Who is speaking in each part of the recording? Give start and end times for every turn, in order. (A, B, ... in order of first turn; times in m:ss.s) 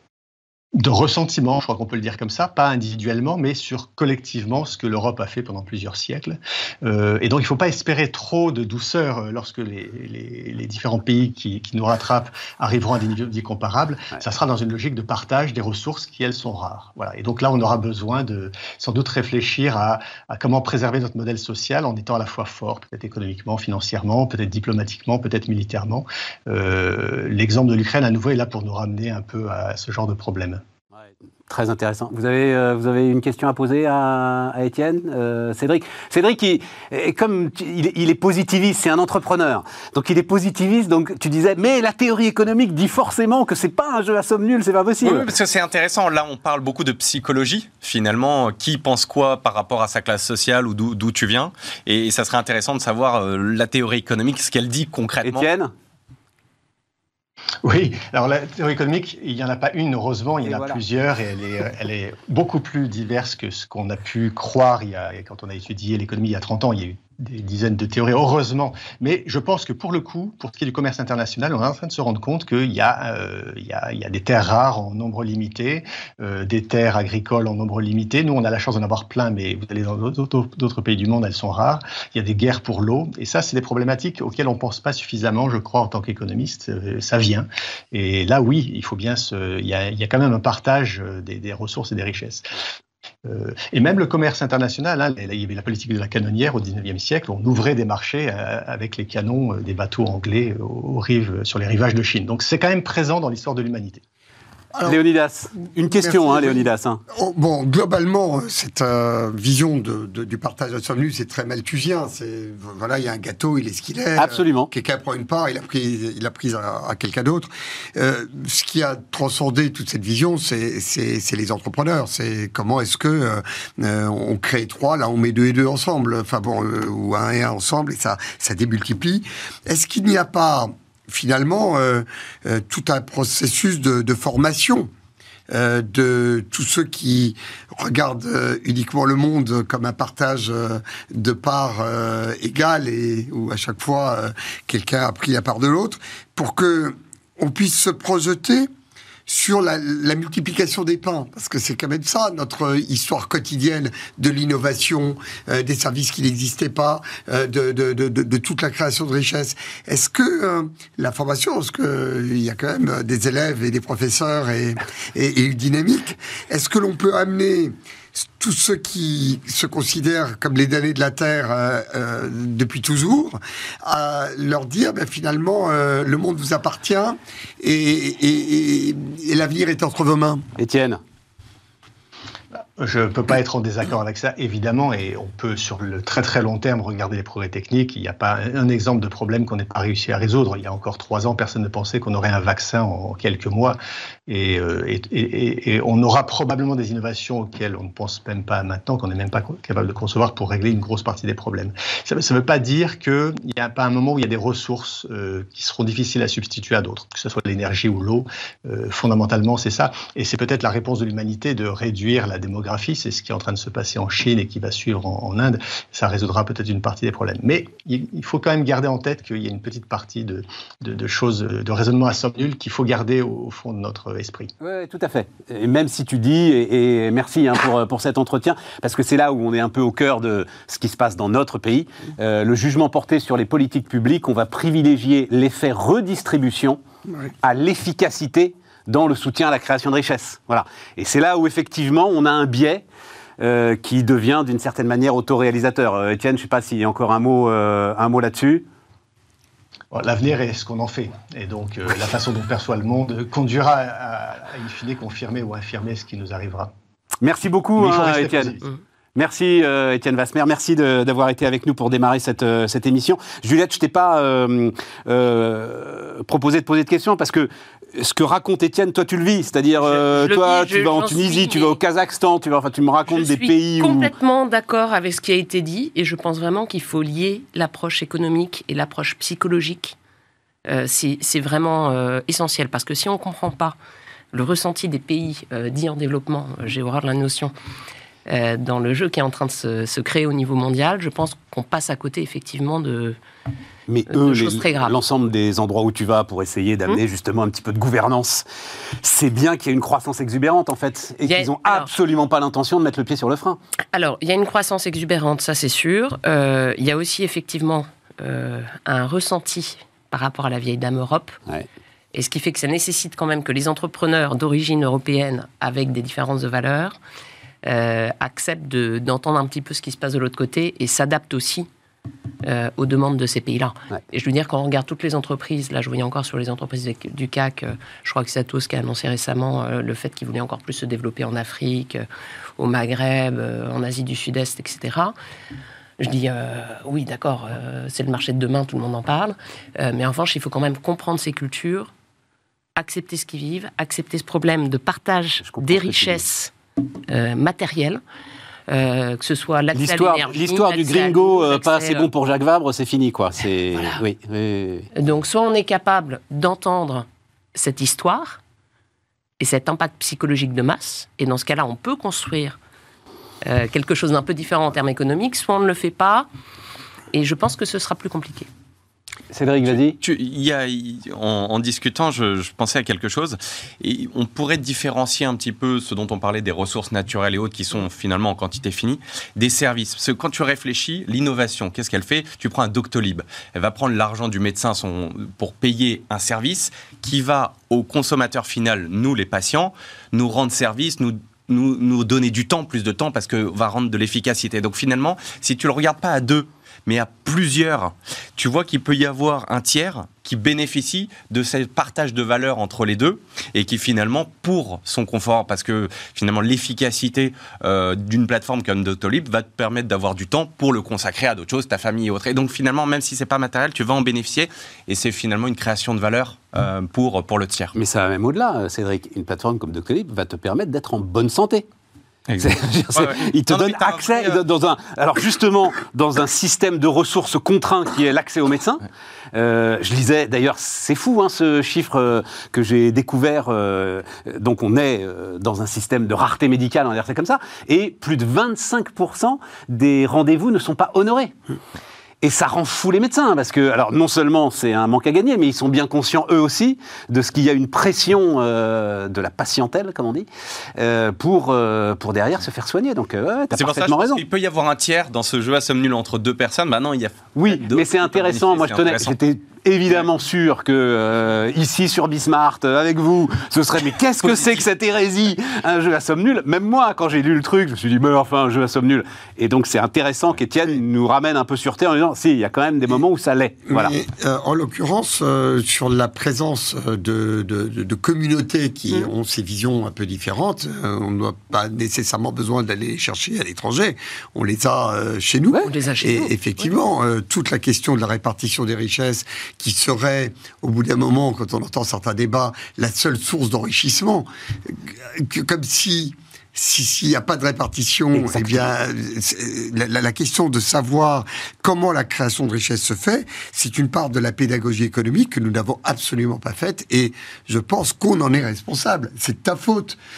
0:00.8-0:30.6 A
0:31.5-0:45.3 B
0:45.0-0:55.5 C
0:55.2-0:55.7 B
0:57.6-1:32.5 A
1:00.4-1:00.8 B
1:33.2-1:44.0 A
1:44.7-1:45.0 D
1:44.9-1:47.0 B
1:45.8-2:14.9 D
1:54.2-1:54.7 B
2:15.5-2:28.7 D
2:29.3-3:00.5 D
3:00.6-3:01.0 B
3:02.8-3:13.8 A
3:14.3-3:44.5 A
3:44.6-3:56.8 B
3:57.4-4:02.8 B
4:03.4-4:08.7 B
4:09.9-4:16.7 A
4:17.2-4:18.6 B
4:17.8-4:18.7 A
4:19.2-4:34.1 B
4:29.8-4:31.8 E
4:33.1-4:40.0 E
4:40.7-4:43.8 E
4:44.3-4:47.5 E
4:48.3-4:53.2 E
4:53.9-4:58.4 B
4:54.1-4:55.0 E
4:59.0-5:03.6 B
5:01.2-5:01.9 E
5:03.9-5:11.4 E
5:12.1-5:17.0 E
5:17.6-5:21.7 E
5:22.4-5:32.0 E
5:32.6-5:35.2 E
5:36.0-5:41.9 E
5:42.8-5:46.5 E
5:45.4-5:46.2 B
5:47.1-5:48.0 E
5:48.7-5:52.1 E
5:49.7-5:54.9 B
5:55.0-5:58.4 E
5:59.4-6:02.6 E
6:03.4-6:06.3 E
6:07.1-6:08.5 E
6:09.3-6:10.0 B
6:10.0-6:57.7 C
6:57.7-7:01.7 B
7:02.3-7:04.4 C
7:02.4-7:21.4 B
7:22.2-7:34.2 B
7:33.5-7:39.2 C
7:37.4-7:54.0 B
7:44.2-7:44.6 C
7:53.7-8:30.0 D
8:05.6-8:06.3 E
8:18.1-8:18.7 B